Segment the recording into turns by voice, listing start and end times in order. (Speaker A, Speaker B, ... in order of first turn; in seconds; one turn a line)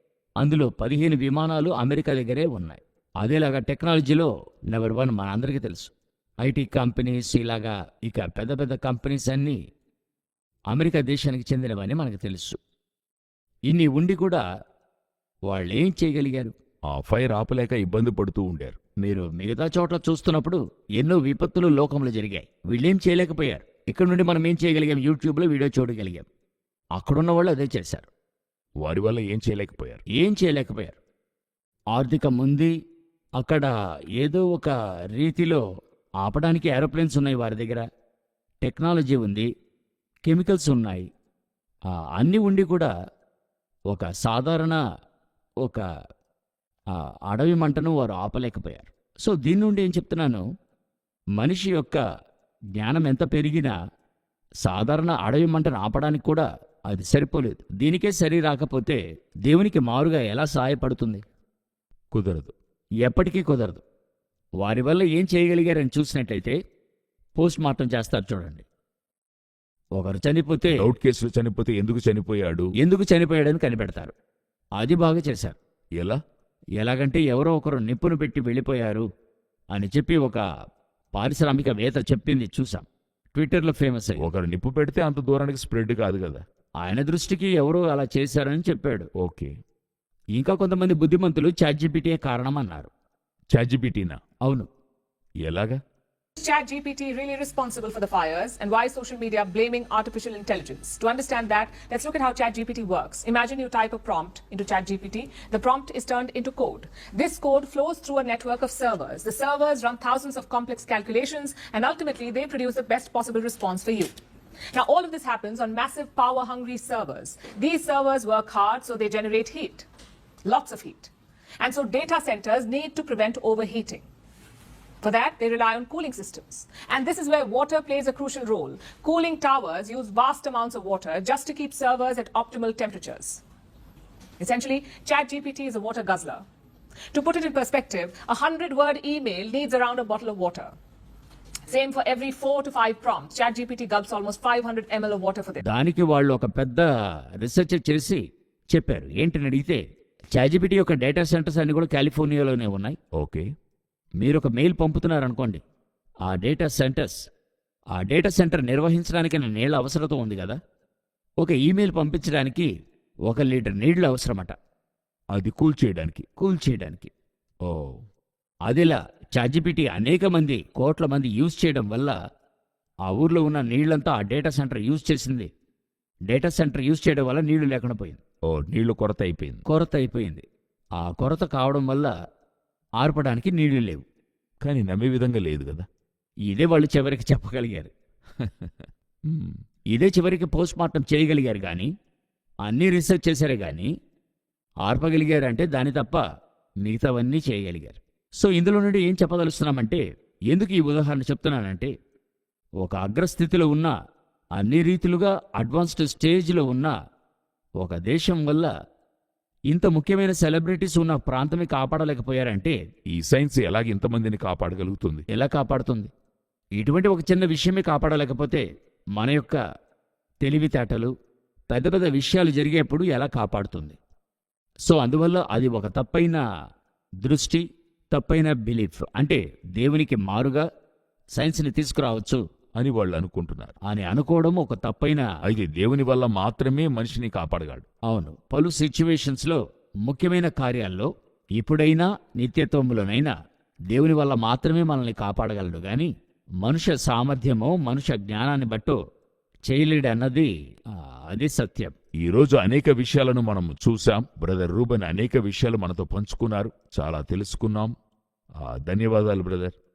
Speaker A: 0.4-9.6
Speaker A: 10.7-12.6
Speaker A: 13.7-14.4
Speaker A: 15.5-16.5
Speaker B: 16.9-18.8
Speaker A: 19.0-26.3
Speaker A: 26.9-28.1
Speaker B: 28.8-30.0
Speaker A: 30.1-31.0
Speaker A: 31.9-32.7
Speaker A: 33.4-35.6
Speaker A: 36.2-37.8
Speaker A: 38.6-39.5
Speaker A: 40.2-41.0
Speaker A: 41.9-42.9
Speaker A: 43.9-44.8
Speaker A: 46.9-50.4
Speaker A: 51.4-52.0
Speaker A: 52.7-53.7
Speaker A: 54.6-61.2
Speaker B: 62.1-62.5
Speaker A: 63.0-63.8
Speaker A: 64.6-66.5
Speaker A: 67.4-68.6
Speaker A: 70.0-70.9
Speaker B: 70.7-72.7
Speaker A: 72.8-74.1
Speaker A: 74.8-75.6
Speaker A: 76.8-79.0
Speaker A: 79.7-80.4
Speaker A: 81.1-84.2
Speaker B: 84.2-86.4
Speaker A: 86.8-89.1
Speaker B: 89.2-89.5
Speaker A: 90.3-92.9
Speaker B: 93.5-94.2
Speaker A: 94.4-94.7
Speaker B: 95.4-95.8
Speaker C: 96.4-114.2
Speaker C: 114.7-119.8
Speaker C: 120.4-121.1
Speaker C: 121.6-124.0
Speaker C: 125.0-133.4
Speaker C: 134.4-136.4
Speaker C: 137.1-140.7
Speaker C: 141.7-145.6
Speaker A: 145.6-146.9
Speaker A: 147.4-149.8
Speaker A: 150.3-153.0
Speaker B: 153.2-153.4
Speaker A: 154.2-155.6
Speaker A: 156.2-157.2
Speaker A: 157.9-160.6
Speaker A: 161.4-162.7
Speaker A: 163.2-164.5
Speaker B: 165.3-166.2
Speaker A: 166.4-167.1
Speaker B: 167.6-168.0
Speaker A: 168.7-172.1
Speaker A: 173.0-175.5
Speaker A: 176.3-178.2
Speaker B: 178.5-179.6
Speaker A: 179.7-180.4
Speaker A: 181.0-182.1
Speaker A: 183.0-184.0
Speaker B: 184.6-185.8
Speaker A: 186.5-187.9
Speaker B: 188.4-188.7
Speaker B: 189.3-189.6
Speaker A: 189.9-191.9
Speaker A: 192.6-193.9
Speaker A: 194.8-196.2
Speaker A: 196.8-201.9
Speaker A: 202.8-203.9
Speaker A: 204.5-206.9
Speaker A: 207.8-208.7
Speaker A: 209.7-212.8
Speaker B: 213.1-215.2
Speaker A: 215.3-216.1
Speaker A: 216.8-218.6
Speaker A: 219.2-219.6
Speaker A: 220.4-221.1
Speaker A: 221.7-224.0
Speaker A: 224.8-226.4
Speaker A: 227.2-230.6
Speaker A: 231.3-232.4
Speaker B: 232.8-233.7
Speaker A: 233.8-235.3
Speaker B: 235.4-237.8
Speaker A: 238.1-243.3
Speaker A: 243.9-246.1
Speaker A: 246.6-249.0
Speaker A: 249.7-251.9
Speaker B: 252.2-257.9
Speaker B: 258.6-259.7